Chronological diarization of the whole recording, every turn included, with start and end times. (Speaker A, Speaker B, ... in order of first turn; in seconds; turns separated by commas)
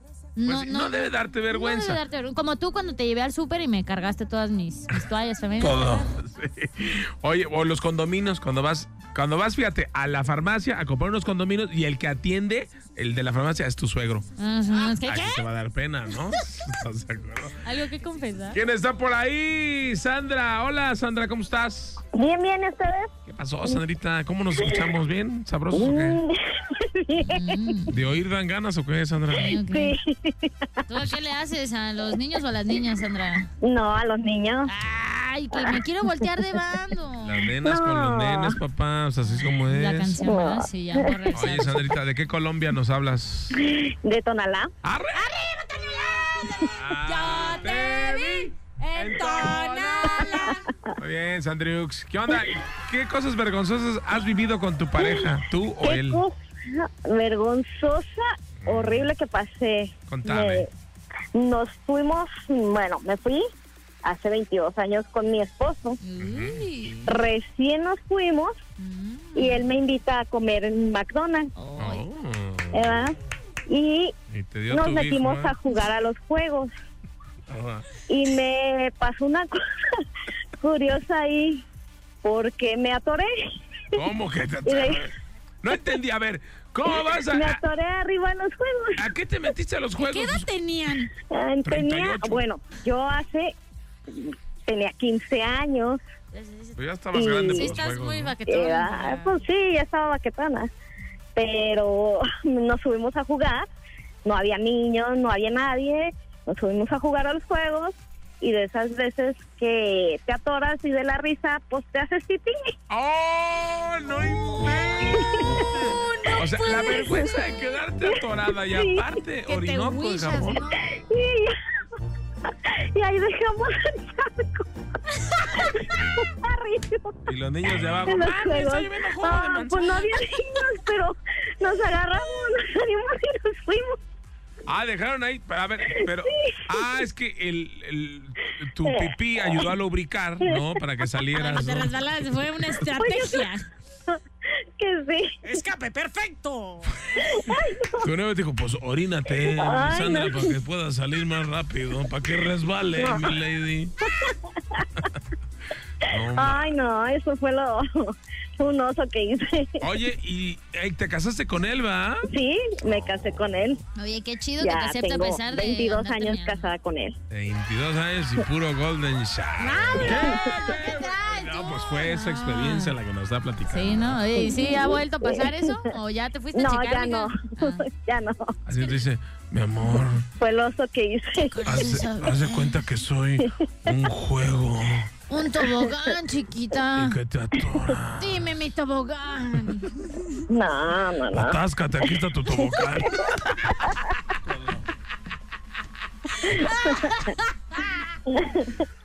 Speaker A: 0.4-6.1, Speaker B: 0.5-2.0, Speaker B: 5.6-14.2, Speaker A: 14.4-15.4, Speaker B: 15.0-17.6, Speaker A: 17.6-18.6, Speaker B: 18.5-22.0, Speaker C: 22.1-23.1, Speaker B: 23.3-26.2, Speaker C: 24.6-24.8, Speaker C: 25.7-27.4, Speaker A: 27.2-27.9, Speaker B: 27.9-29.6, Speaker A: 29.3-30.0, Speaker C: 29.6-30.5, Speaker A: 30.9-33.5, Speaker C: 33.6-34.7, Speaker A: 34.7-37.5, Speaker B: 37.2-40.3, Speaker C: 37.6-38.6, Speaker A: 39.7-41.8, Speaker C: 40.2-41.1, Speaker B: 41.3-43.6, Speaker C: 43.5-44.7, Speaker B: 44.8-45.4, Speaker A: 45.1-50.7, Speaker B: 46.8-50.4, Speaker B: 51.0-56.2, Speaker C: 55.0-55.3, Speaker C: 55.8-60.7, Speaker B: 58.6-59.1, Speaker B: 60.1-60.7, Speaker C: 61.4-63.4, Speaker C: 64.0-66.0, Speaker A: 66.0-67.1, Speaker B: 66.2-66.7, Speaker C: 67.1-68.6, Speaker A: 68.8-69.7, Speaker C: 69.3-71.5, Speaker A: 71.6-72.1, Speaker B: 71.8-73.1, Speaker C: 72.7-73.2, Speaker C: 73.7-74.1, Speaker B: 74.3-75.6, Speaker C: 74.7-76.7, Speaker B: 77.5-77.9, Speaker C: 78.1-79.6, Speaker C: 80.6-81.6, Speaker C: 82.2-83.5, Speaker B: 83.9-87.6, Speaker C: 84.7-85.1, Speaker C: 86.9-89.0, Speaker B: 89.0-90.5, Speaker A: 90.0-91.1, Speaker C: 91.3-93.5, Speaker B: 91.7-92.4, Speaker C: 94.1-96.0, Speaker A: 96.3-96.8, Speaker B: 96.8-98.4, Speaker C: 97.1-97.7, Speaker A: 97.5-99.4, Speaker C: 98.5-100.7, Speaker C: 101.4-103.7, Speaker C: 104.2-112.7, Speaker B: 112.9-120.6, Speaker C: 114.6-115.7, Speaker C: 116.6-117.3, Speaker C: 118.0-119.1, Speaker A: 119.5-120.8, Speaker C: 121.0-121.5, Speaker C: 122.9-124.7, Speaker C: 125.3-127.2, Speaker B: 127.3-130.3, Speaker C: 128.1-134.0, Speaker B: 134.7-142.0, Speaker C: 135.9-136.8, Speaker C: 138.8-139.7, Speaker C: 140.4-140.8, Speaker A: 141.3-143.6, Speaker C: 143.0-143.5, Speaker C: 144.8-145.4, Speaker A: 145.5-146.9, Speaker C: 147.2-148.1, Speaker B: 148.0-153.9, Speaker C: 149.4-150.6, Speaker C: 153.0-153.3, Speaker C: 154.0-154.9, Speaker B: 156.1-156.7, Speaker C: 156.3-159.8, Speaker B: 159.8-162.3, Speaker C: 162.3-163.8, Speaker B: 162.9-163.4, Speaker A: 164.0-166.7, Speaker C: 164.6-167.2, Speaker B: 167.3-174.3, Speaker A: 169.6-172.9, Speaker A: 173.7-177.9, Speaker C: 174.3-175.5, Speaker C: 176.5-178.5, Speaker B: 178.7-180.3, Speaker C: 180.4-181.8, Speaker A: 181.4-182.7, Speaker B: 181.7-185.1, Speaker C: 183.5-183.9, Speaker A: 185.3-187.2, Speaker B: 186.9-188.5, Speaker A: 188.2-190.1, Speaker C: 190.5-191.6, Speaker B: 191.3-193.9, Speaker C: 196.4-197.3, Speaker A: 196.6-197.4, Speaker C: 198.3-198.8